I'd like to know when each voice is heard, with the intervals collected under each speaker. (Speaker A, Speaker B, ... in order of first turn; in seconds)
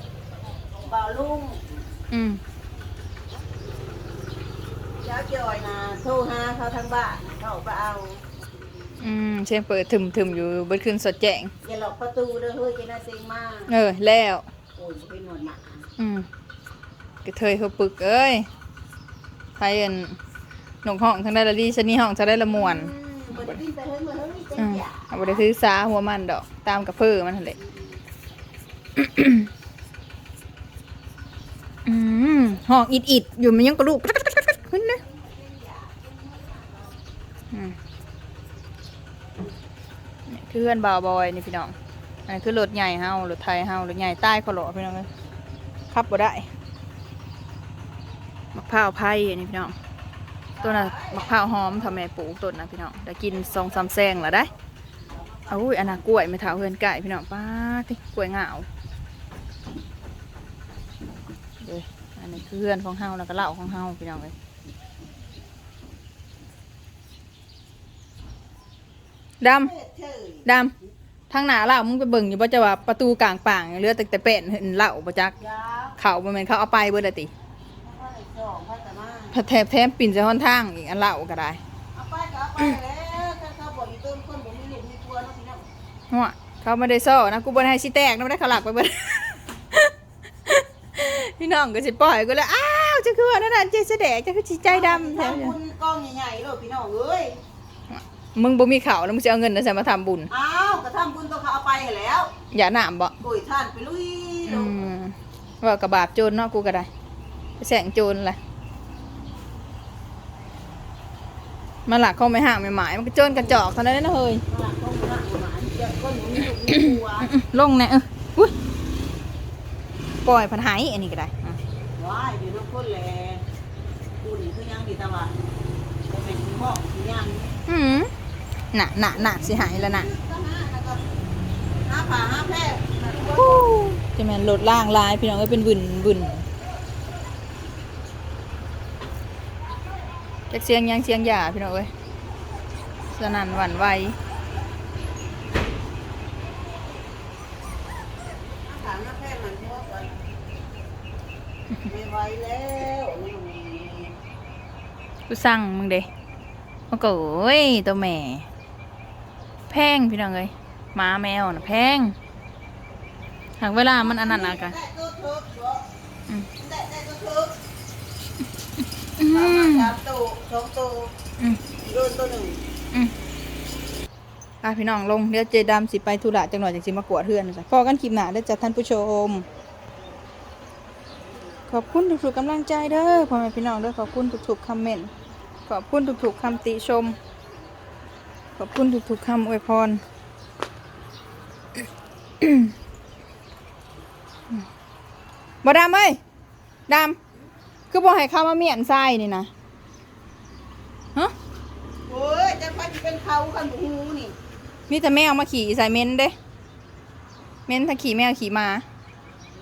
Speaker A: 0.8-1.8, 5.0-8.2, 11.6-13.7, 14.8-15.9, 22.4-25.4, 27.6-28.0, 34.8-37.0, 50.5-51.7, 53.3-54.5, 55.1-56.0, 69.5-70.5, 75.4-76.0, 77.8-79.4, 81.9-85.7, 94.6-97.4, 100.3-102.3, 103.2-104.9, 113.2-113.6, 114.5-117.3, 122.0-123.4, 124.2-125.3, 126.1-127.5, 129.1-131.0, 131.8-133.7, 148.6-150.2, 151.8-154.1, 163.9-165.8, 166.5-167.5, 169.2-171.1, 171.8-172.6, 202.1-204.3
Speaker B: 2.1-2.4, 9.0-11.5, 13.7-14.4, 16.0-16.3, 17.2-18.5, 19.6-20.2, 20.8-22.9, 24.6-27.6, 29.0-29.5, 31.9-35.0, 40.3-41.7, 42.3-45.1, 45.9-46.5, 48.5-49.8, 50.6-54.5, 55.5-58.7, 61.6-64.3, 69.4-69.7, 70.5-70.7, 71.3-75.3, 76.0-77.3, 79.3-81.6, 86.1-89.9, 90.5-95.5, 97.9-100.3, 102.5-103.2, 104.5-106.9, 107.6-108.4, 111.9-114.4, 116.7-118.5, 120.2-121.6, 127.7-128.1, 128.7-130.1, 133.3-136.4, 140.5-141.9, 143.1-144.2, 155.3-156.1, 156.9-158.5, 159.7-162.1, 163.6-164.8, 169.2-169.9, 174.6-179.5, 181.7-185.1, 185.7-187.2, 188.6-190.0, 192.4-192.7, 195.6-196.2, 196.9-197.2, 197.9-199.5, 204.9-206.3, 207.7-208.8